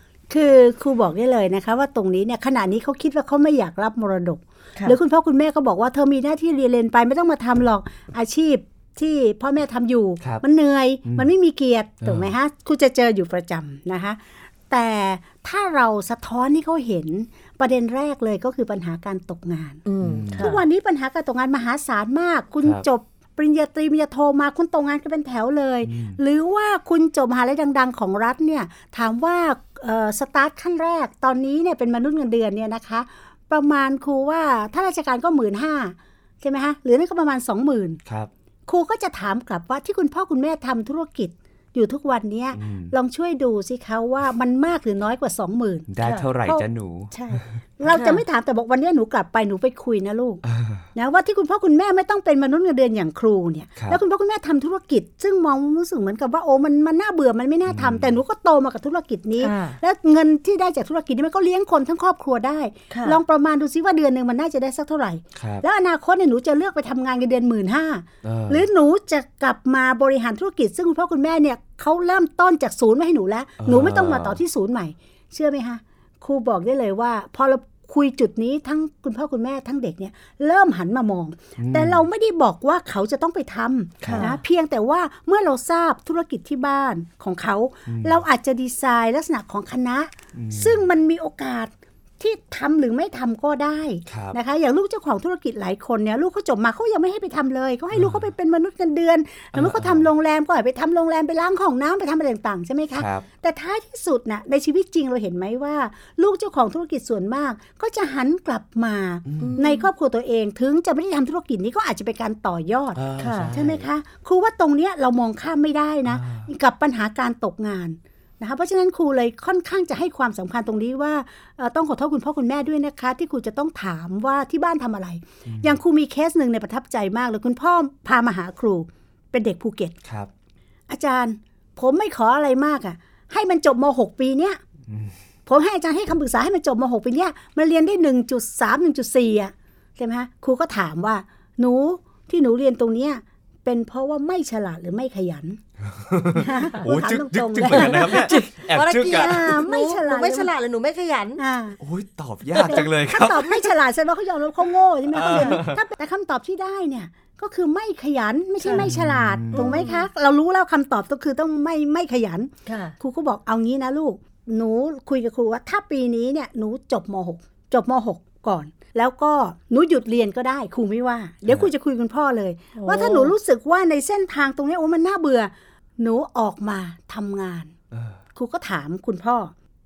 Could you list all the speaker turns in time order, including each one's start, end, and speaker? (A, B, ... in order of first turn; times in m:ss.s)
0:00.3-0:19.8 A
0:12.0-0:12.3 B
0:19.9-0:20.6 C
0:20.0-0:20.6 B
0:20.4-0:38.0 A
0:25.8-0:26.2 B
0:38.7-0:45.9 A
0:42.5-0:42.9 B
0:45.9-0:47.1 B
0:46.0-0:46.3 C
0:47.2-0:50.4 A
0:47.9-0:48.2 C
0:50.4-0:50.8 B
0:51.0-2:10.0 A
0:57.7-0:58.2 B
0:59.4-0:59.8 C
1:02.9-1:03.2 C
1:05.4-1:05.6 B
1:08.2-1:08.6 B
1:13.6-1:14.4 B
1:21.6-1:22.1 B
1:24.0-1:24.3 B
1:24.0-1:24.3 C
1:27.9-1:28.2 B
1:30.4-1:30.9 B
1:34.1-1:34.4 B
1:37.9-1:38.3 B
1:39.5-1:40.1 B
1:43.0-1:43.3 B
1:49.3-1:49.6 B
1:49.4-1:49.9 C
1:53.0-1:53.9 B
1:53.2-1:53.5 C
1:56.1-1:56.5 B
2:05.5-2:05.8 B
2:10.0-2:10.3 B
2:10.9-2:14.6 A
2:14.9-2:15.2 B
2:15.5-2:25.6 A
2:25.9-2:29.6 B
2:26.4-2:28.3 A
2:27.7-2:31.4 C
2:29.1-2:30.5 A
2:31.4-2:31.8 A
2:31.8-2:33.6 B
2:32.6-2:57.7 A
2:35.1-2:35.8 B
2:35.3-2:35.6 C
2:38.6-2:38.9 C
2:38.8-2:39.9 B
2:39.5-2:40.1 C
2:42.7-2:43.0 C
2:52.8-2:53.3 C
2:57.9-2:58.2 B
2:58.4-2:59.5 A